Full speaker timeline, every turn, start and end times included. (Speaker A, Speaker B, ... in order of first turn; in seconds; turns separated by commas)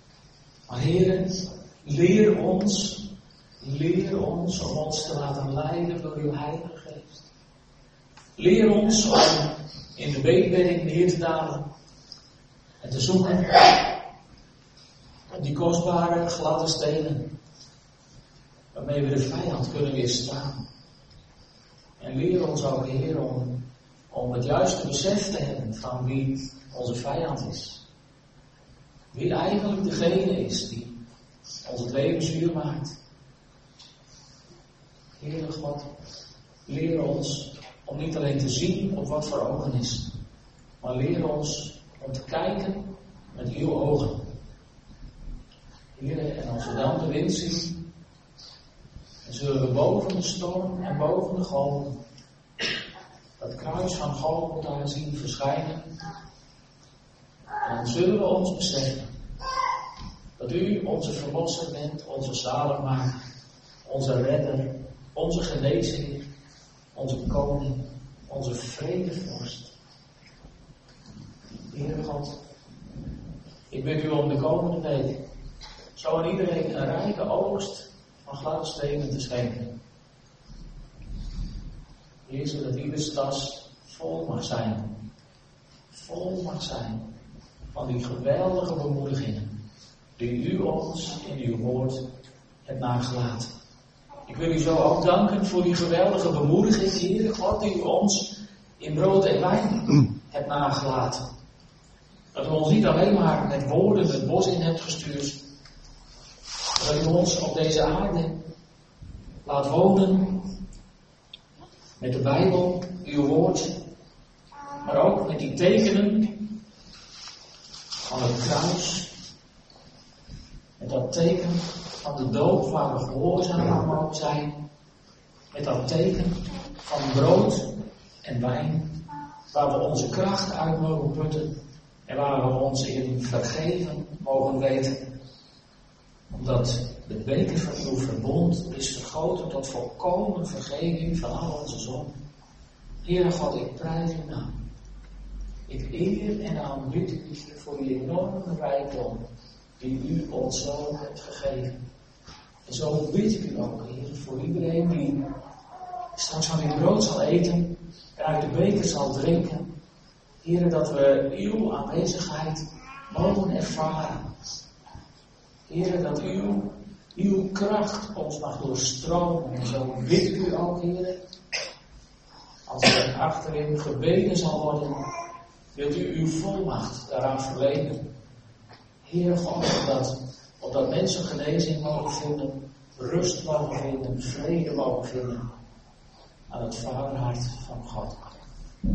Speaker A: 0.7-3.1, Speaker A: 3.6-7.2, Speaker A: 8.4-11.7, Speaker A: 12.8-13.7, Speaker A: 15.3-17.3, Speaker A: 18.7-20.6, Speaker A: 22.0-27.8, Speaker A: 29.1-30.9, Speaker A: 31.6-33.0, Speaker A: 35.2-35.9, Speaker A: 36.7-40.1, Speaker A: 40.8-44.2, Speaker A: 46.0-47.8, Speaker A: 49.2-52.0, Speaker A: 53.4-55.9, Speaker A: 57.6-59.1, Speaker A: 60.4-63.1, Speaker A: 63.8-66.2, Speaker A: 66.9-69.7, Speaker A: 71.7-72.4, Speaker A: 73.7-75.2, Speaker A: 76.0-79.8, Speaker A: 82.3-85.0, Speaker A: 85.9-87.0, Speaker A: 87.7-89.5, Speaker A: 90.2-92.0, Speaker A: 92.7-93.5, Speaker A: 94.3-101.2, Speaker A: 102.3-105.4, Speaker A: 106.7-108.3, Speaker A: 109.4-110.5, Speaker A: 112.0-113.8, Speaker A: 114.8-116.5, Speaker A: 118.1-119.1, Speaker A: 120.8-124.5, Speaker A: 125.5-127.7, Speaker A: 128.2-129.0, Speaker A: 129.5-131.5, Speaker A: 132.1-135.0, Speaker A: 136.3-142.1, Speaker A: 143.0-144.5, Speaker A: 145.7-149.2, Speaker A: 149.8-151.8, Speaker A: 152.7-155.2, Speaker A: 156.1-159.7, Speaker A: 160.4-164.2, Speaker A: 165.7-171.2, Speaker A: 172.7-175.0, Speaker A: 175.7-178.1, Speaker A: 179.0-185.5, Speaker A: 186.5-188.3